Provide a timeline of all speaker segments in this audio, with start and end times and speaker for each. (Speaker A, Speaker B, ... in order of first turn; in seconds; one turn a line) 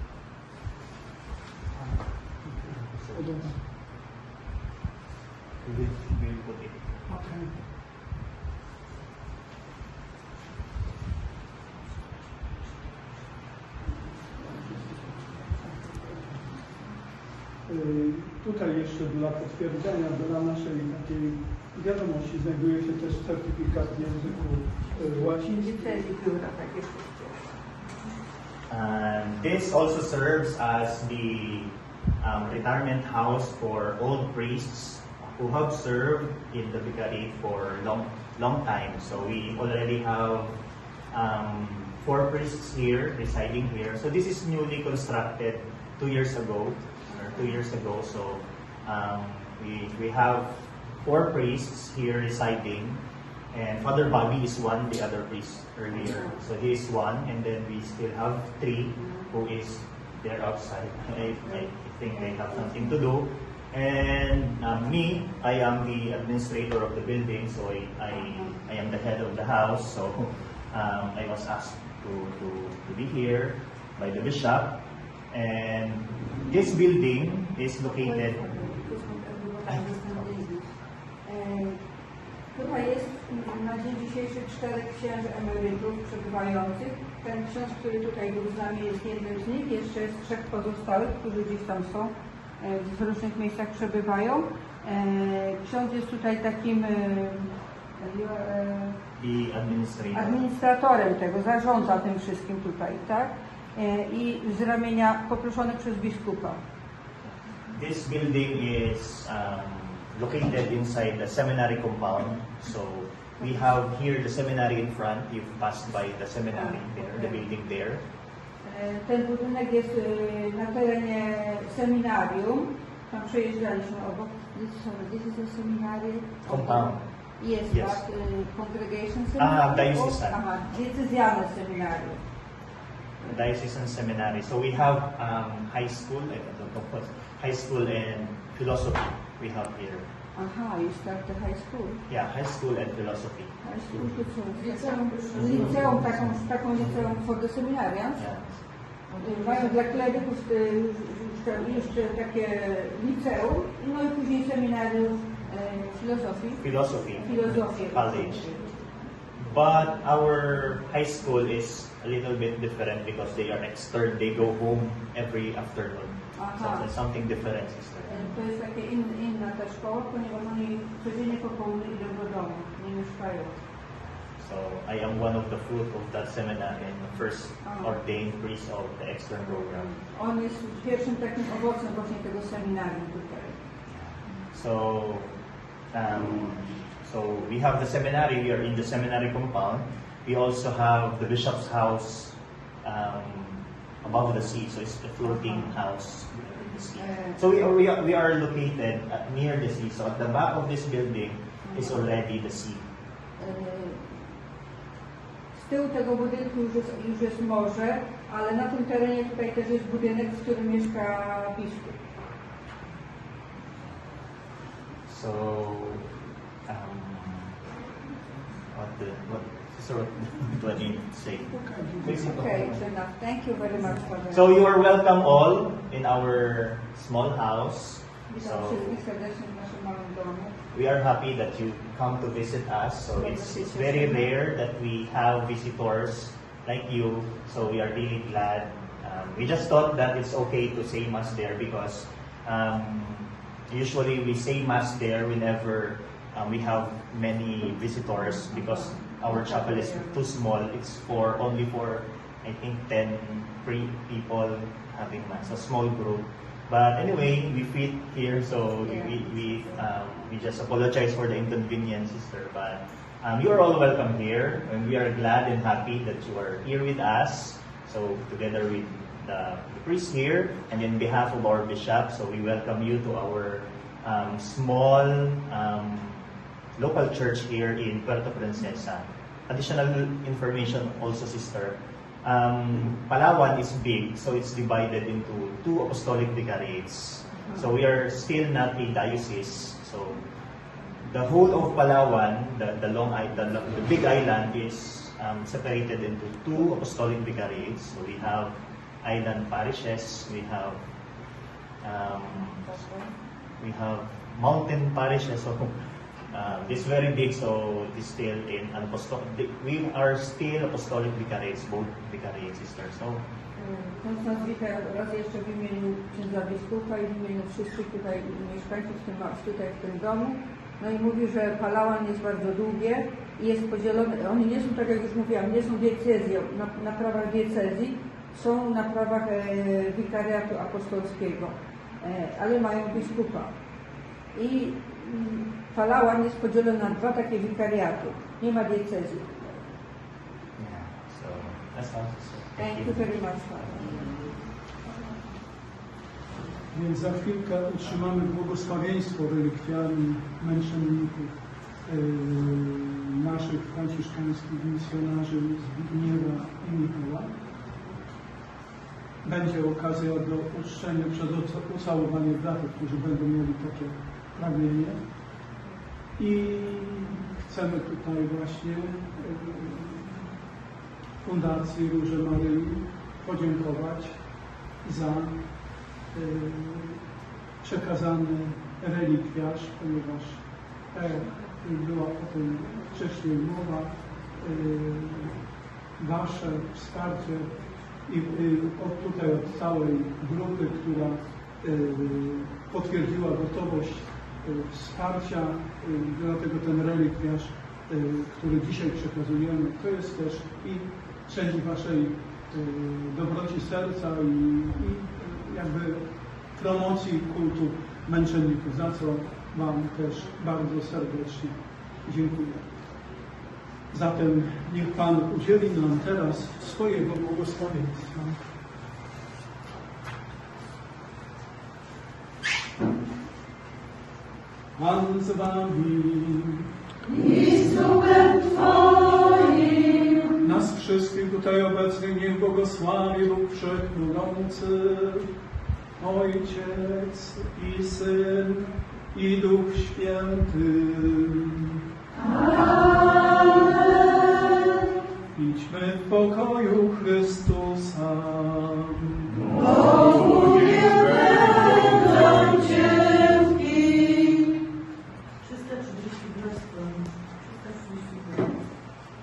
Speaker A: 1.8-3.7
Speaker B: 2.7-3.5
Speaker B: 5.6-7.0
Speaker A: 7.0-7.7
Speaker A: 14.4-16.2
Speaker A: 17.6-26.1
Speaker C: 25.3-27.6
Speaker B: 28.7-78.4
Speaker C: 47.1-47.6
Speaker C: 56.0-56.4
Speaker C: 59.0-59.3
Speaker C: 61.5-63.0
Speaker C: 68.1-68.6
Speaker C: 77.9-81.8
Speaker B: 79.6-80.4
Speaker C: 82.5-99.0
Speaker B: 99.2-100.4
Speaker C: 100.1-106.6
Speaker B: 107.2-118.0
Speaker C: 113.4-113.7
Speaker C: 116.5-117.5
Speaker C: 118.6-132.2
Speaker B: 126.4-127.1
Speaker B: 127.7-128.0
Speaker B: 129.4-130.4
Speaker B: 133.2-140.1
Speaker C: 140.3-142.0
Speaker B: 142.1-143.5
Speaker C: 143.6-148.3
Speaker D: 144.6-145.8
Speaker B: 145.3-145.8
Speaker B: 148.2-148.6
Speaker C: 149.2-159.0
Speaker D: 149.2-149.7
Speaker B: 156.6-158.5
Speaker B: 159.4-168.3
Speaker C: 166.3-166.9
Speaker C: 168.1-173.6
Speaker B: 173.9-179.9
Speaker C: 177.6-178.0
Speaker C: 179.8-183.6
Speaker B: 183.9-185.4
Speaker B: 185.9-202.9
Speaker C: 195.3-195.7
Speaker C: 196.9-197.4
Speaker C: 201.6-202.1
Speaker C: 203.4-204.3
Speaker C: 205.5-212.0
Speaker B: 215.1-217.6
Speaker B: 218.7-222.8
Speaker A: 221.5-222.5
Speaker C: 222.1-224.5
Speaker B: 224.3-229.0
Speaker C: 228.3-230.6
Speaker B: 230.7-276.2
Speaker C: 233.1-234.3
Speaker C: 248.4-250.2
Speaker C: 258.8-259.8
Speaker B: 276.8-290.2
Speaker B: 291.0-300.8
Speaker B: 301.8-302.9
Speaker B: 303.6-305.7
Speaker B: 306.3-313.2
Speaker C: 313.6-333.5
Speaker C: 334.3-339.7
Speaker B: 340.6-343.0
Speaker C: 342.6-344.3
Speaker A: 346.7-357.4
Speaker A: 359.2-365.0
Speaker A: 366.2-370.3
Speaker A: 371.2-377.0
Speaker A: 377.6-412.8
Speaker A: 413.9-418.4
Speaker A: 424.8-426.7
Speaker D: 427.1-430.3
Speaker A: 430.4-435.3
Speaker A: 436.0-441.6
Speaker A: 445.3-449.5
Speaker D: 449.5-454.6
Speaker D: 455.5-457.0